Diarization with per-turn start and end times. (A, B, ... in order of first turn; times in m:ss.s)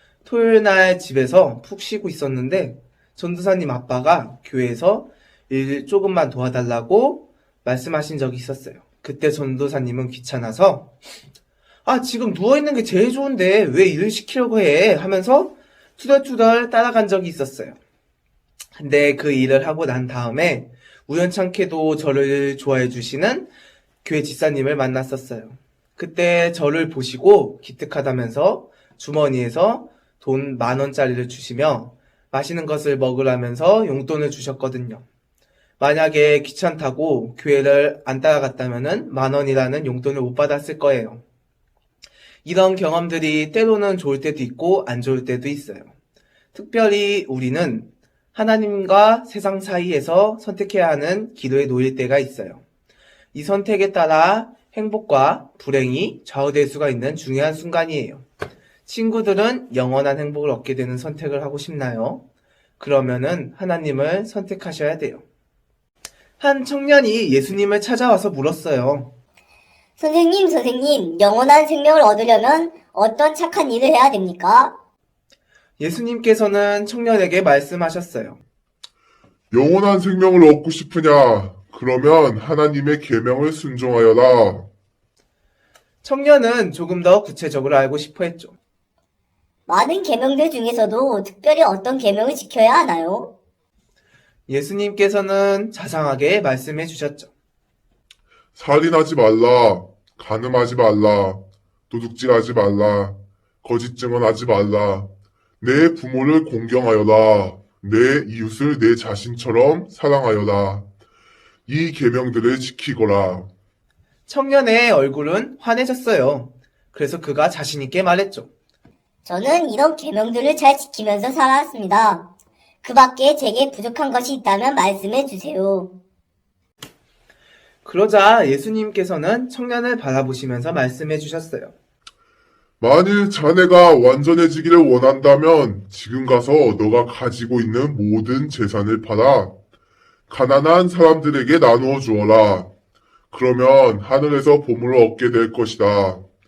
0:00.2-0:10.9 A
0:11.8-0:17.8 A
0:18.7-0:23.5 A
0:24.0-0:35.0 A
0:35.8-0:41.2 A
0:42.4-0:45.9 A
0:46.5-0:52.6 A
0:53.3-0:58.2 A
0:58.8-1:02.2 A
1:02.8-1:05.2 A
1:06.4-1:09.1 A
1:10.0-1:14.7 B
1:15.8-1:18.4 A
1:19.5-1:24.6 C
1:26.0-1:28.6 A
1:29.7-1:33.3 B
1:34.5-1:37.3 A
1:38.5-1:45.1 C
1:45.6-1:50.8 C
1:51.7-1:53.5 C
1:54.3-1:58.5 A
1:59.2-2:02.2 B
2:02.8-2:05.9 B
2:07.8-2:11.7 A
2:12.8-2:19.5 C
2:20.3-2:22.7 C
2:23.3-2:26.2 C